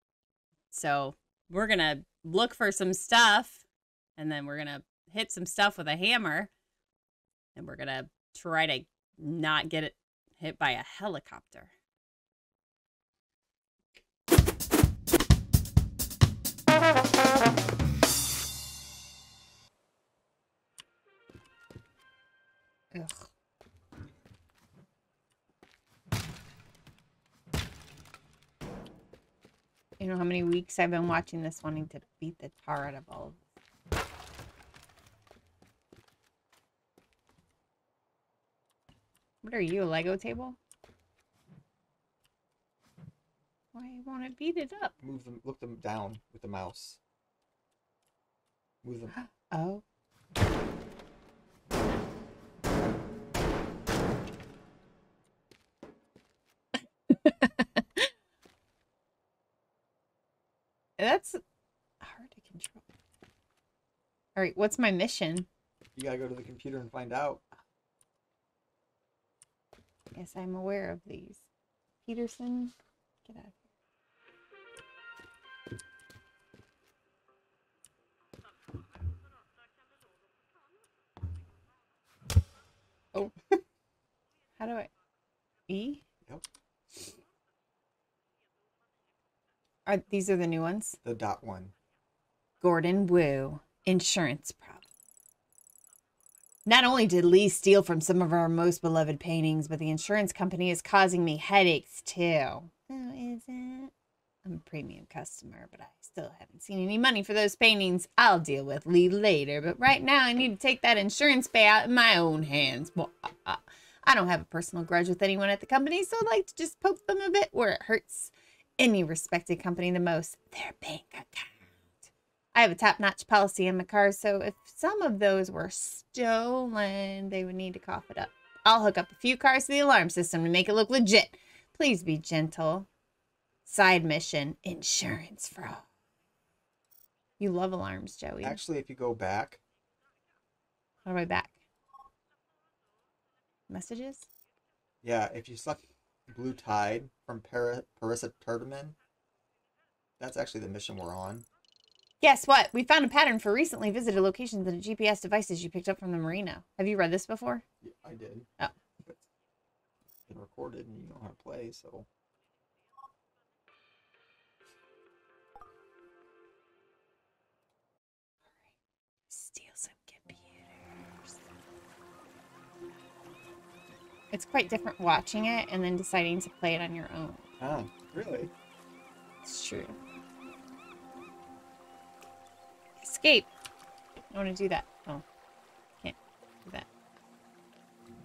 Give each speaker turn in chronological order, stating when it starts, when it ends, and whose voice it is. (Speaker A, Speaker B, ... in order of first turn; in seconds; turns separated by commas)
Speaker A: 0.7-3.6, Speaker A: 4.2-6.5, Speaker A: 7.5-11.7, Speaker A: 22.9-23.3, Speaker A: 30.0-33.4, Speaker A: 39.4-40.6, Speaker A: 43.7-44.9, Speaker B: 45.0-47.0, Speaker B: 48.8-49.1, Speaker A: 49.1-49.8, Speaker A: 57.1-58.1, Speaker A: 61.0-61.4, Speaker A: 62.0-62.9, Speaker A: 64.3-65.5, Speaker B: 66.0-67.4, Speaker A: 70.1-71.5, Speaker A: 72.0-73.6, Speaker A: 84.6-84.9, Speaker A: 85.7-86.0, Speaker A: 89.8-91.0, Speaker B: 91.0-91.7, Speaker A: 92.6-94.9, Speaker A: 96.6-103.9, Speaker A: 104.4-132.9, Speaker A: 133.7-135.8, Speaker A: 137.4-138.6, Speaker B: 138.4-139.6, Speaker A: 141.0-141.6, Speaker A: 143.7-144.3, Speaker B: 145.0-148.9, Speaker B: 150.2-151.4, Speaker A: 152.2-157.6, Speaker B: 157.8-158.5, Speaker B: 160.3-162.1, Speaker A: 169.3-171.3, Speaker A: 174.3-177.4, Speaker B: 177.6-178.5, Speaker A: 179.4-179.9, Speaker A: 183.0-183.5, Speaker A: 184.3-185.2, Speaker A: 186.0-186.9